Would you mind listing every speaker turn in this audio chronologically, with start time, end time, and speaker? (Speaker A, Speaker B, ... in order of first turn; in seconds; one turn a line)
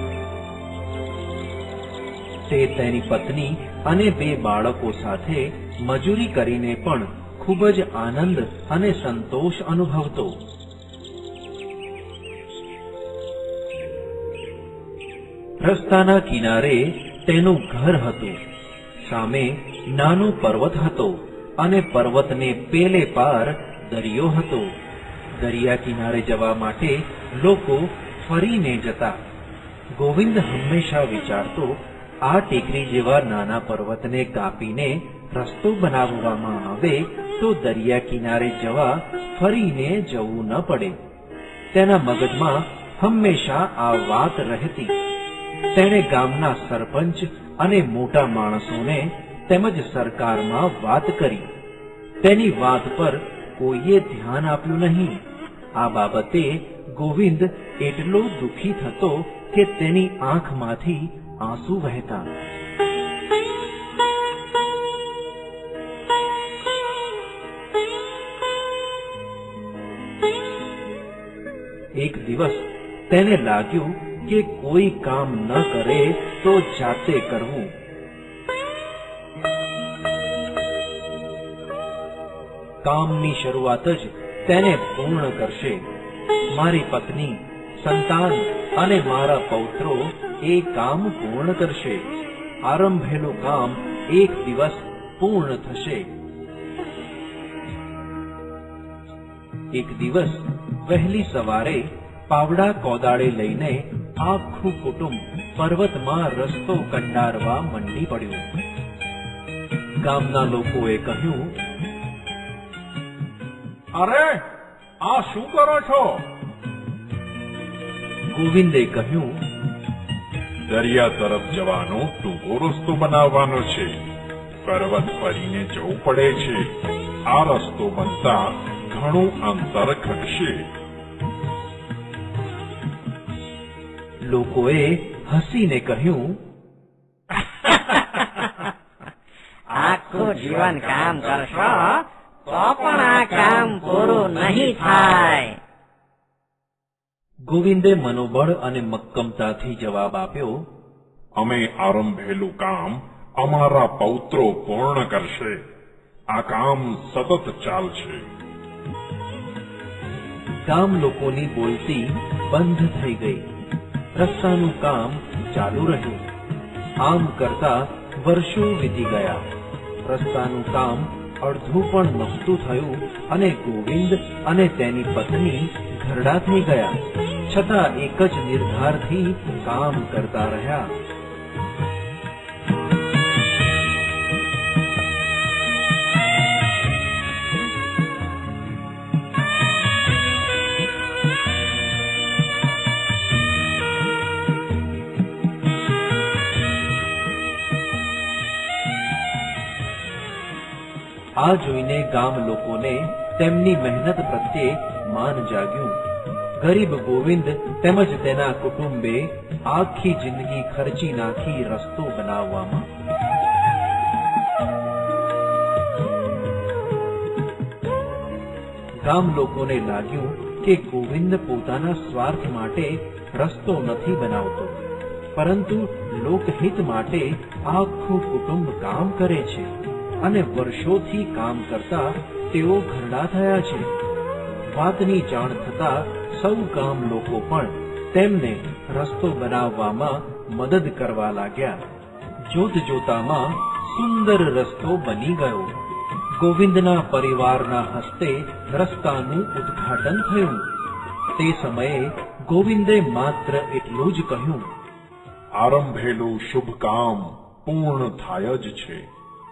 Speaker A: 2.5-10.4
Speaker A: 15.6-18.4
Speaker A: 19.0-24.7
Speaker A: 25.4-29.2
Speaker A: 30.0-41.0
Speaker A: 41.7-45.0
Speaker A: 45.7-51.5
Speaker A: 52.2-55.2
Speaker A: 55.8-62.3
Speaker A: 72.0-77.7
Speaker A: 82.8-85.8
Speaker A: 86.5-96.1
Speaker A: 99.7-108.5
Speaker A: 110.0-111.5
Speaker B: 114.0-114.4
Speaker B: 115.0-116.2
Speaker A: 118.3-119.4
Speaker B: 120.7-124.0
Speaker B: 124.6-126.7
Speaker B: 127.3-130.7
Speaker A: 134.3-136.4
Speaker C: 137.6-138.7
Speaker C: 139.7-145.6
Speaker A: 147.5-150.6
Speaker B: 151.4-155.6
Speaker B: 156.3-158.3
Speaker A: 160.7-163.5
Speaker A: 164.2-166.2
Speaker A: 167.0-169.4
Speaker A: 170.1-180.9
Speaker A: 201.4-206.0
Speaker A: 206.6-212.9
Speaker A: 219.0-224.8
Speaker A: 225.3-233.9
Speaker A: 234.7-241.8
Speaker A: 242.5-245.7
Speaker A: 246.4-250.6
Speaker A: 251.4-254.7
Speaker B: 255.6-259.1